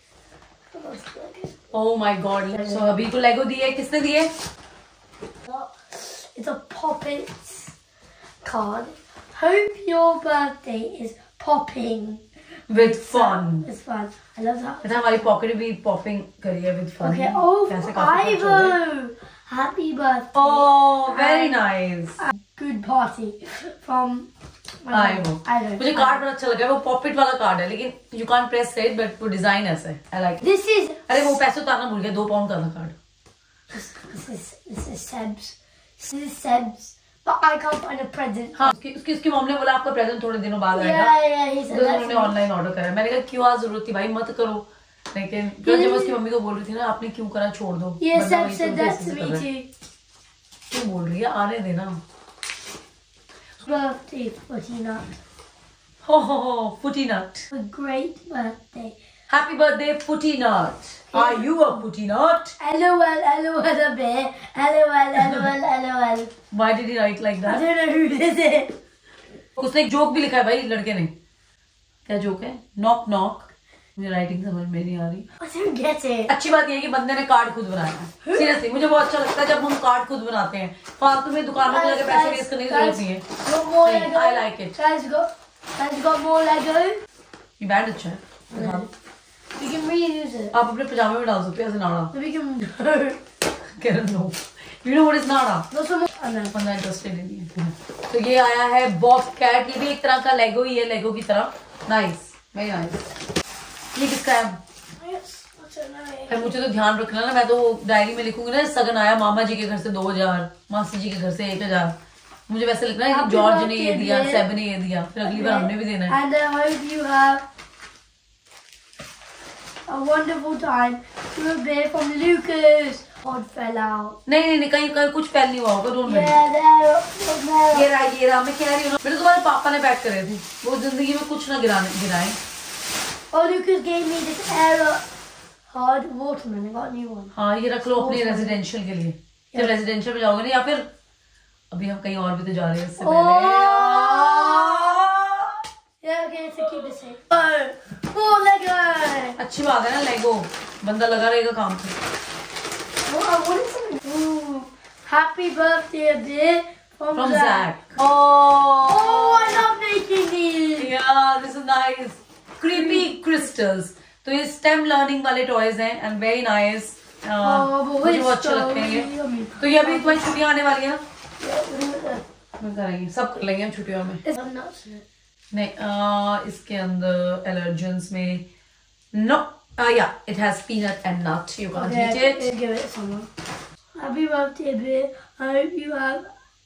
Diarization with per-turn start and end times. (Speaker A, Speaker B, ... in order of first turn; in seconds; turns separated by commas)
Speaker A: 0.7-1.6, Speaker B: 1.7-4.3, Speaker A: 5.5-7.7, Speaker A: 8.4-15.0, Speaker B: 12.7-13.7, Speaker B: 14.8-18.8, Speaker A: 17.0-21.6, Speaker B: 20.3-22.2, Speaker A: 22.2-24.3, Speaker A: 24.8-26.2, Speaker B: 24.9-30.4, Speaker A: 30.4-31.0, Speaker B: 31.1-33.0, Speaker A: 33.7-38.7, Speaker B: 38.5-41.1, Speaker A: 40.7-42.3, Speaker B: 41.7-49.4, Speaker A: 45.6-46.1, Speaker A: 48.0-49.6, Speaker B: 50.7-52.0, Speaker A: 53.6-55.1, Speaker B: 56.0-57.5, Speaker A: 57.5-59.0, Speaker B: 59.3-62.5, Speaker A: 61.1-61.5, Speaker A: 62.6-66.3, Speaker B: 65.2-65.5, Speaker B: 66.5-67.6, Speaker A: 67.5-68.7, Speaker B: 69.6-71.1, Speaker B: 72.0-75.3, Speaker A: 75.4-76.3, Speaker B: 76.3-83.2, Speaker A: 81.6-87.0, Speaker B: 83.8-84.7, Speaker B: 87.6-88.8, Speaker A: 88.5-88.9, Speaker A: 89.5-90.5, Speaker B: 90.5-92.1, Speaker A: 92.1-93.2, Speaker B: 93.7-95.7, Speaker A: 95.7-96.5, Speaker B: 96.5-103.0, Speaker B: 103.9-104.6, Speaker A: 105.0-106.6, Speaker B: 106.3-112.0, Speaker B: 112.5-116.2, Speaker A: 113.1-114.5, Speaker A: 115.2-117.4, Speaker A: 119.9-124.2, Speaker B: 124.2-126.4, Speaker A: 126.0-127.9, Speaker B: 127.7-132.4, Speaker A: 133.3-135.0, Speaker A: 135.7-137.3, Speaker B: 137.3-140.9, Speaker A: 137.9-138.6, Speaker B: 141.7-145.5, Speaker A: 143.0-145.0, Speaker A: 146.0-149.4, Speaker B: 149.4-151.9, Speaker A: 153.1-157.7, Speaker B: 157.1-159.6, Speaker A: 158.9-160.9, Speaker B: 160.8-171.0, Speaker A: 167.4-170.2, Speaker A: 171.4-172.2, Speaker B: 172.6-174.2, Speaker A: 174.2-175.0, Speaker B: 175.5-178.4, Speaker B: 179.1-182.5, Speaker A: 181.7-183.3, Speaker A: 184.0-186.3